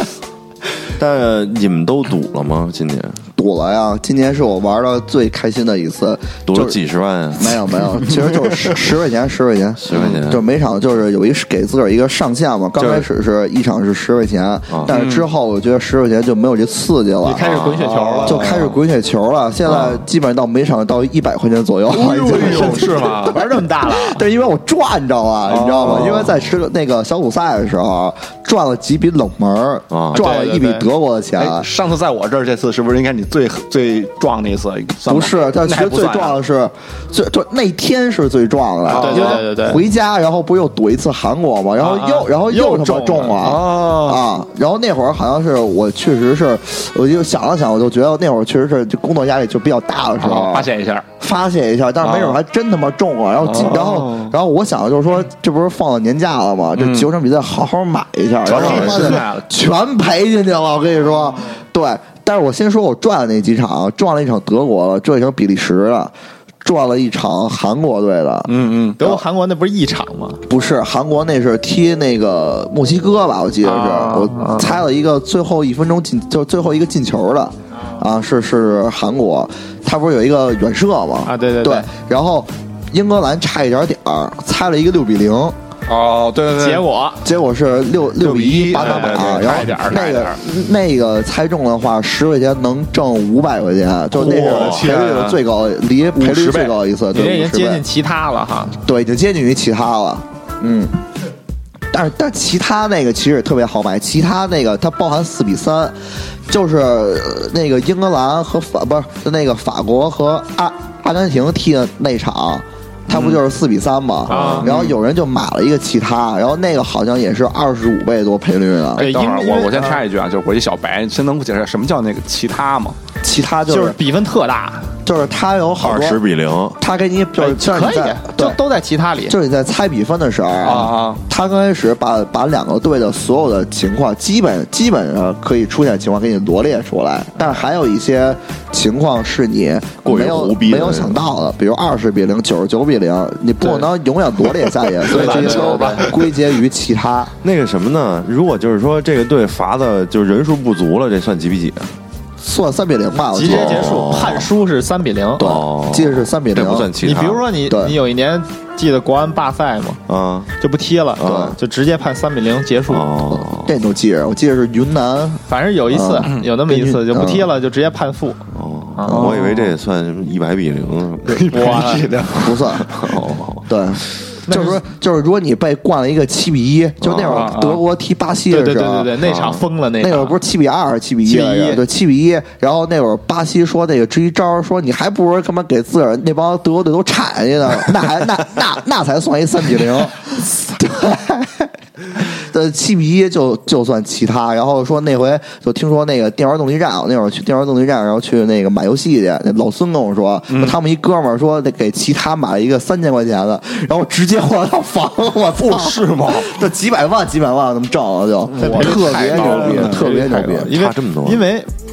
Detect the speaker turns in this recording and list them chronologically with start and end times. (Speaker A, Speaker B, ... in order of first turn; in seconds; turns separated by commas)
Speaker A: 1.0-3.2, Speaker B: 3.4-6.8, Speaker A: 6.5-8.3, Speaker B: 7.4-17.6, Speaker A: 9.8-10.4, Speaker C: 9.9-10.2, Speaker C: 12.8-13.1, Speaker C: 14.9-15.3, Speaker D: 17.2-18.5, Speaker A: 17.5-17.8, Speaker C: 17.8-18.8, Speaker B: 18.2-31.7, Speaker C: 21.9-23.4, Speaker D: 22.3-24.2, Speaker C: 25.5-26.3, Speaker A: 29.9-30.2, Speaker D: 30.1-30.9, Speaker C: 31.4-36.4, Speaker B: 35.1-69.2, Speaker C: 38.9-39.4, Speaker D: 38.9-39.8, Speaker C: 41.8-42.3, Speaker D: 42.4-43.4, Speaker C: 43.4-44.2, Speaker C: 50.2-51.0, Speaker C: 52.0-52.4, Speaker C: 53.4-54.4, Speaker C: 56.8-57.1, Speaker C: 58.4-59.5, Speaker A: 58.6-59.1, Speaker C: 68.5-69.0, Speaker D: 69.0-70.4, Speaker B: 70.5-85.6, Speaker D: 73.6-74.8, Speaker D: 81.2-81.9, Speaker C: 85.9-86.8, Speaker D: 86.5-87.2, Speaker B: 87.2-97.8, Speaker C: 88.2-89.7, Speaker D: 88.8-90.4, Speaker C: 94.2-95.4, Speaker A: 94.2-94.8, Speaker C: 96.2-96.8, Speaker D: 97.1-98.8, Speaker B: 98.8-100.9, Speaker B: 101.9-106.0, Speaker B: 106.5-119.0, Speaker C: 113.1-113.4, Speaker D: 114.3-114.7, Speaker C: 114.3-114.9, Speaker C: 119.0-123.0, Speaker D: 119.0-120.0, Speaker B: 123.2-124.0, Speaker D: 123.7-124.9, Speaker B: 125.0-126.2, Speaker A: 125.8-126.8, Speaker B: 126.8-128.6, Speaker D: 127.4-129.3, Speaker B: 129.3-147.3, Speaker C: 130.6-131.2, Speaker A: 140.0-141.2, Speaker D: 143.6-143.9, Speaker C: 145.1-146.2, Speaker D: 145.1-146.1, Speaker A: 147.4-151.9, Speaker B: 152.4-154.0, Speaker D: 153.3-155.5, Speaker A: 153.4-154.5, Speaker A: 155.4-157.4, Speaker B: 155.4-156.9, Speaker D: 157.0-160.0, Speaker B: 157.7-158.0, Speaker A: 160.1-160.5, Speaker D: 160.6-163.4, Speaker A: 161.2-161.6, Speaker B: 161.2-161.6, Speaker A: 162.9-163.7, Speaker B: 163.6-167.5, Speaker D: 165.5-168.4, Speaker A: 168.5-171.8, Speaker D: 169.0-169.3, Speaker C: 169.1-169.8, Speaker C: 171.3-173.2, Speaker D: 171.5-172.2, Speaker B: 172.3-173.0, Speaker A: 172.9-173.7, Speaker B: 173.7-179.2, Speaker D: 174.5-174.8, Speaker A: 177.0-177.6, Speaker C: 177.2-177.8, Speaker D: 178.5-180.4, Speaker A: 179.2-179.7, Speaker B: 180.0-210.7, Speaker D: 181.2-181.8, Speaker C: 200.5-200.8, Speaker C: 205.6-206.5, Speaker D: 208.6-211.7, Speaker C: 208.6-210.1, Speaker A: 210.6-211.5